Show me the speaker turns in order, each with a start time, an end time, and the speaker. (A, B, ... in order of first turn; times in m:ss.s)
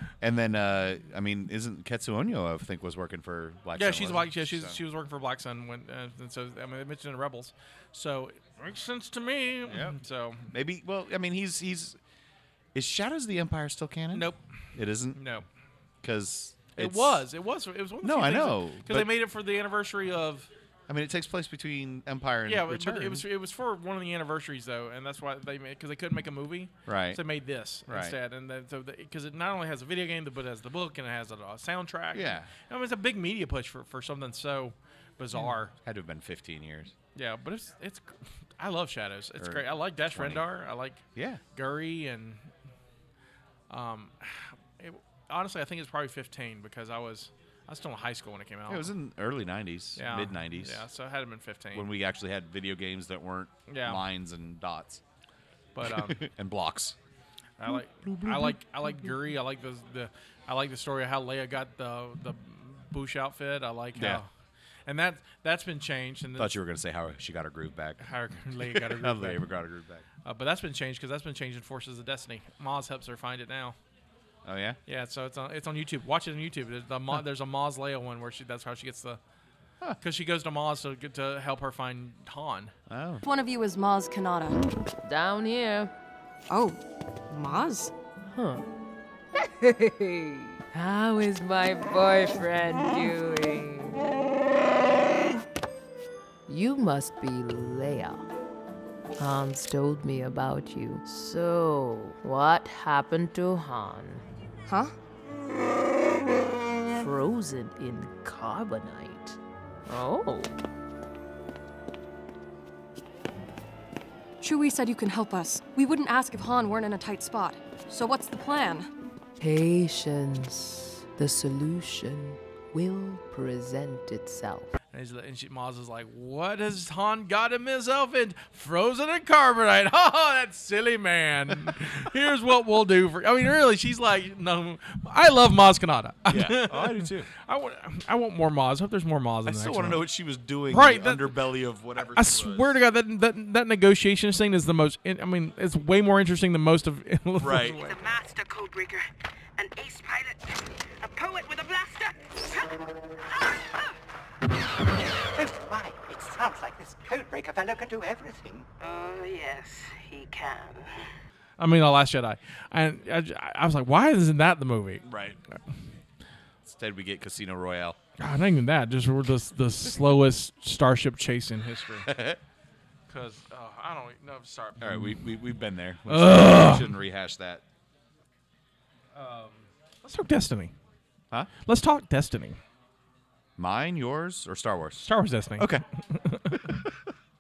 0:00.2-0:04.8 A
0:03.7-0:10.5 B
0:09.7-0:10.0 A
0:10.5-0:12.0 A
0:12.7-0:15.2 A
0:14.1-0:14.4 B
0:15.1-0:15.4 B
0:16.0-0:17.2 A
0:16.8-0:20.5 B
0:18.0-0:19.1 A
0:20.9-0:23.2 A
0:22.5-0:35.7 B
0:26.8-0:27.2 A
0:27.9-0:28.2 A
0:32.1-0:32.5 A
0:35.3-0:36.9 A
0:37.1-0:42.5 B
0:39.4-0:40.4 A
0:41.1-0:41.4 A
0:43.7-0:48.9 B
0:48.7-0:50.8 A
0:50.0-0:51.9 B
0:51.7-0:55.0 A
0:53.7-0:54.0 B
0:55.7-0:56.2 B
0:55.8-0:57.0 A
0:57.6-1:04.3 B
0:57.6-0:59.1 A
1:03.9-1:04.2 A
1:04.9-1:06.5 B
1:06.4-1:10.0 A
1:08.0-1:09.5 B
1:10.2-1:13.8 B
1:14.4-1:14.8 A
1:14.9-1:19.2 B
1:20.0-1:22.7 B
1:22.9-1:23.2 A
1:23.2-1:24.6 C
1:25.0-1:25.9 D
1:26.5-1:26.8 C
1:27.3-1:27.9 C
1:28.3-1:28.6 D
1:29.6-1:34.0 D
1:36.5-1:38.3 D
1:39.2-1:44.2 D
1:44.7-1:44.9 C
1:47.0-1:50.5 D
1:54.4-1:58.9 C
1:59.4-2:04.7 D
2:04.9-2:20.0 B
2:16.3-2:17.3 A
2:19.4-2:22.8 A
2:20.7-2:21.4 B
2:22.0-2:28.0 B
2:27.4-2:27.8 A
2:27.8-2:29.0 E
2:29.6-2:33.9 E
2:35.4-2:38.6 F
2:38.8-2:41.0 E
2:41.6-2:45.1 B
2:45.0-2:45.4 A
2:46.6-2:48.0 A
2:48.2-2:52.1 B
2:52.0-2:52.4 A
2:53.1-2:55.2 B
2:54.8-2:57.6 A
2:56.1-2:56.9 B
2:59.1-3:00.7 B
3:01.6-3:02.6 B
3:03.6-3:05.1 A
3:05.0-3:06.7 B
3:05.6-3:05.8 A
3:06.5-3:07.0 A